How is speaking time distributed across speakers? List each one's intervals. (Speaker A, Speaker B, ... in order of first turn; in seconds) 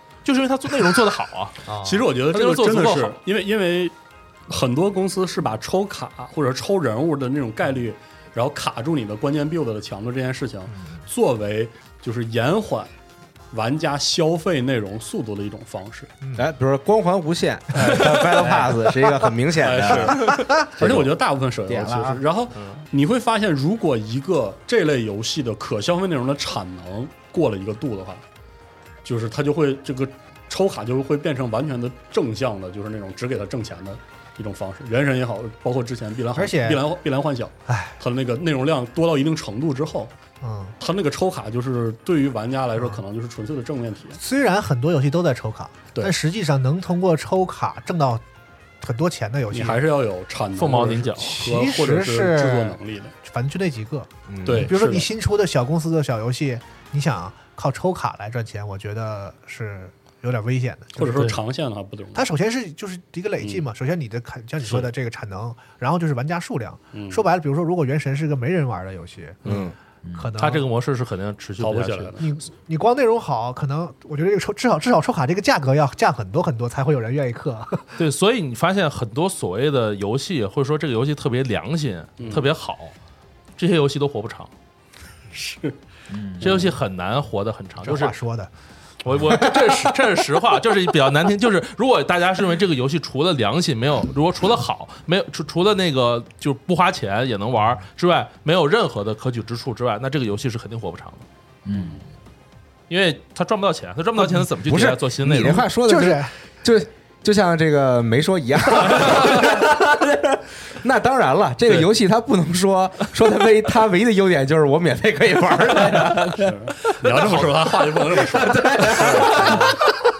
Speaker A: 0.2-1.6, 2.3-3.2, 22.5-22.8, 50.5-51.4, 61.1-61.4, 70.4-72.2, 78.0-82.9, 83.6-84.5, 86.4-88.2, 89.0-101.2, 102.9-105.7, 119.0-119.5
Speaker B: 1.6-2.1, 20.1-20.7, 36.3-36.8, 37.7-38.0, 40.4-40.7, 44.2-48.2, 48.8-49.8, 51.2-61.1, 62.1-69.5, 70.1-70.6, 72.2-78.0, 87.8-88.5, 105.8-106.3
Speaker C: 1.8-3.9, 4.5-12.9, 13.5-16.1, 17.7-18.2, 19.6-28.2, 29.0-40.1, 40.8-44.2, 49.5-53.1, 54.4-55.1, 61.0-62.2, 66.9-67.2, 71.6-72.3, 82.2-82.5, 85.3-85.8, 86.4-86.7, 116.4-119.8
Speaker D: 16.3-21.1, 54.3-54.7, 69.4-69.7, 104.6-116.5, 117.2-117.5, 118.2-119.7
Speaker E: 18.2-18.7, 21.7-22.2, 70.0-70.3, 86.1-86.6, 101.6-102.0